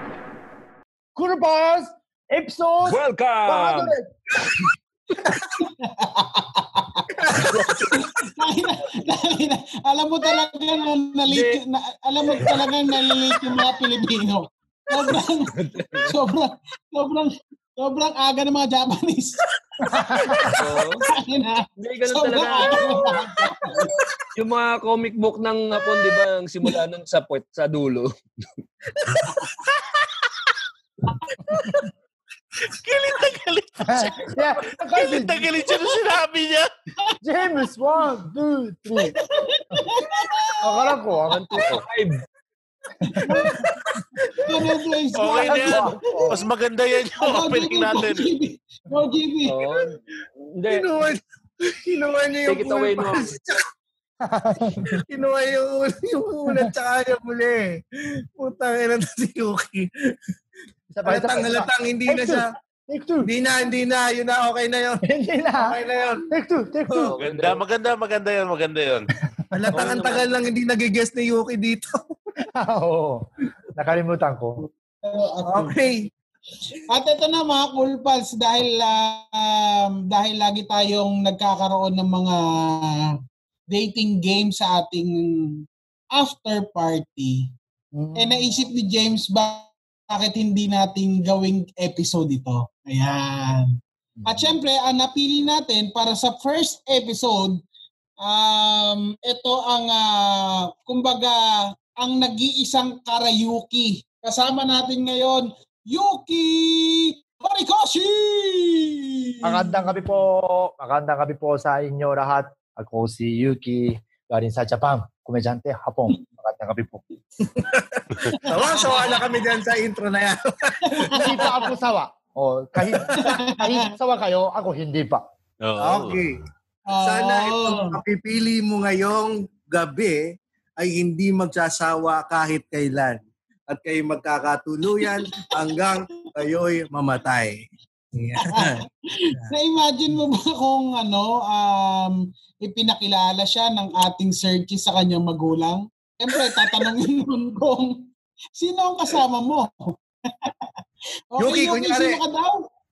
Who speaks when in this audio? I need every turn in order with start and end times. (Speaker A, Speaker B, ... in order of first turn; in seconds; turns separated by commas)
Speaker A: 1.2-4.1, Speaker B: 2.9-3.9, Speaker C: 5.8-7.1, Speaker D: 7.2-8.3, Speaker C: 8.3-15.6, Speaker B: 11.3-11.6, Speaker B: 15.6-16.1, Speaker C: 16.1-19.4, Speaker A: 19.9-20.5, Speaker B: 20.6-21.1, Speaker C: 21.1-23.8, Speaker B: 21.8-23.2, Speaker B: 24.3-28.1, Speaker A: 31.5-31.8, Speaker E: 32.7-34.4, Speaker A: 33.8-35.6, Speaker E: 34.9-36.7, Speaker A: 37.2-39.1, Speaker C: 39.1-40.9, Speaker A: 40.6-41.8, Speaker B: 41.3-42.2, Speaker C: 43.2-43.6, Speaker D: 43.3-44.0, Speaker C: 44.5-46.2, Speaker E: 45.1-48.3, Speaker A: 45.4-46.5, Speaker C: 47.1-49.6, Speaker B: 49.5-50.0, Speaker B: 50.5-50.9, Speaker D: 50.7-53.6, Speaker B: 52.5-53.3, Speaker A: 54.2-55.0, Speaker D: 54.9-59.9, Speaker A: 60.9-63.3, Speaker D: 61.0-62.5, Speaker D: 63.2-65.0, Speaker A: 65.0-65.8, Speaker D: 65.6-66.3, Speaker A: 66.3-67.1, Speaker B: 67.0-67.6, Speaker E: 67.2-69.1, Speaker D: 69.5-72.0, Speaker B: 69.7-70.3, Speaker A: 72.6-73.2, Speaker A: 73.8-74.6, Speaker C: 75.0-75.7, Speaker D: 75.5-76.0, Speaker C: 76.9-83.1, Speaker C: 83.7-87.5, Speaker A: 87.9-88.6, Speaker C: 88.2-97.6, Speaker A: 94.2-94.6, Speaker C: 98.2-101.4, Speaker C: 102.0-110.0, Speaker A: 109.4-117.0, Speaker D: 117.4-121.5, Speaker C: 118.5-119.3, Speaker C: 120.9-121.6, Speaker A: 121.1-125.2, Speaker D: 122.8-123.4, Speaker C: 123.2-123.9, Speaker E: 125.6-126.3, Speaker D: 125.8-126.4, Speaker C: 126.9-128.0, Speaker D: 127.0-137.6, Speaker C: 135.1-136.3, Speaker D: 138.2-138.8, Speaker C: 138.4-150.5, Speaker D: 146.3-146.8, Speaker C: 151.3-152.6, Speaker D: 151.4-152.2